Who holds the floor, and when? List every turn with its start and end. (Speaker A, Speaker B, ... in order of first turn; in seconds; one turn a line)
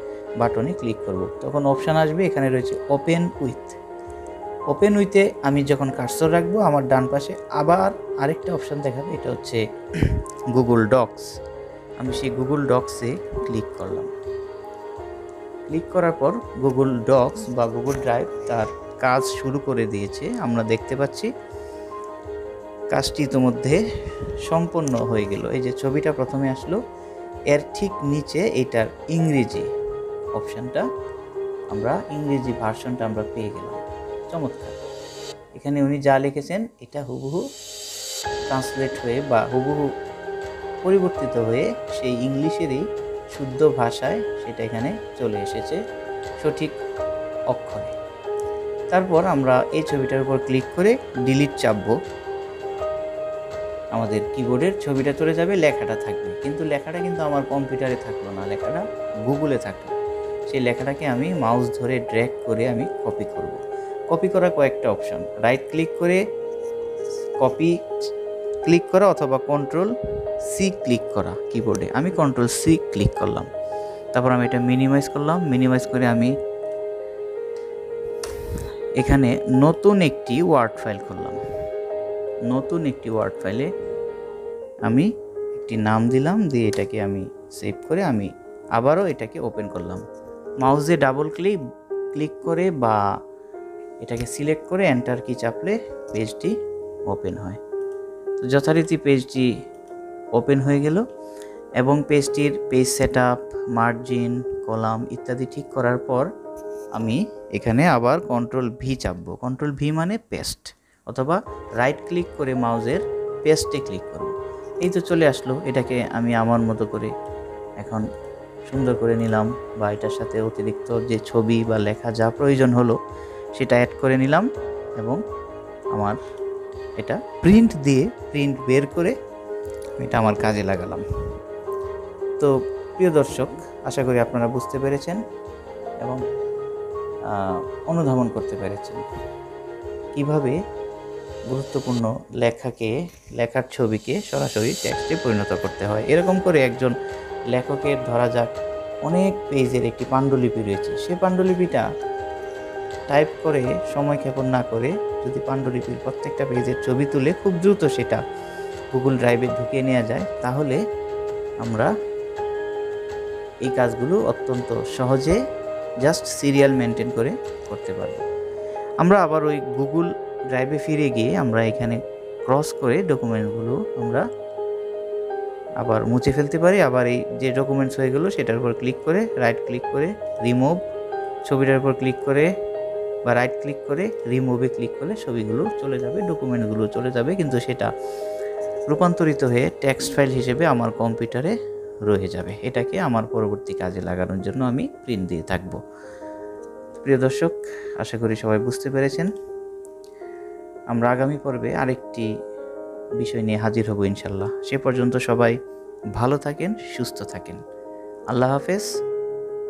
Speaker A: 0.4-3.8
Speaker A: 4.7-11.3
Speaker A: 12.0-14.1
Speaker A: 15.7-21.3
Speaker A: 22.9-23.8
Speaker A: 24.4-26.8
Speaker A: 27.5-29.7
Speaker A: 30.4-30.9
Speaker A: 31.7-34.8
Speaker A: 35.6-37.5
Speaker A: 38.5-39.9
Speaker A: 40.8-45.8
Speaker A: 46.4-46.8
Speaker A: 47.5-47.9
Speaker A: 48.9-52.0
Speaker A: 53.9-60.0
Speaker A: 60.5-66.2
Speaker A: 67.4-67.7
Speaker A: 68.7-69.9
Speaker A: 70.4-73.5
Speaker A: 74.2-76.3
Speaker A: 79.0-81.4
Speaker A: 82.5-83.7
Speaker A: 84.9-90.0
Speaker A: 90.6-91.6
Speaker A: 92.1-93.0
Speaker A: 94.0-96.5
Speaker A: 97.1-97.6
Speaker A: 98.4-99.5
Speaker A: 100.4-101.0
Speaker A: 101.8-106.3
Speaker A: 107.0-117.1
Speaker A: 117.8-118.1
Speaker A: 118.7-123.0
Speaker A: 123.6-125.2
Speaker A: 125.9-126.2
Speaker A: 127.0-129.2
Speaker A: 130.0-131.0
Speaker A: 132.4-135.2
Speaker A: 137.3-139.1
Speaker A: 140.2-140.6
Speaker A: 141.5-146.9
Speaker A: 147.5-148.5
Speaker A: 149.1-151.9
Speaker A: 153.1-158.2
Speaker A: 158.9-160.8
Speaker A: 161.6-161.9
Speaker A: 163.7-165.4
Speaker A: 166.0-168.2
Speaker A: 169.0-174.2
Speaker A: 175.8-180.8
Speaker A: 181.4-182.5
Speaker A: 183.2-187.9
Speaker A: 188.9-191.5
Speaker A: 192.1-195.8
Speaker A: 197.0-199.3
Speaker A: 200.9-202.3
Speaker A: 203.2-205.6
Speaker A: 206.2-207.6
Speaker A: 208.3-208.9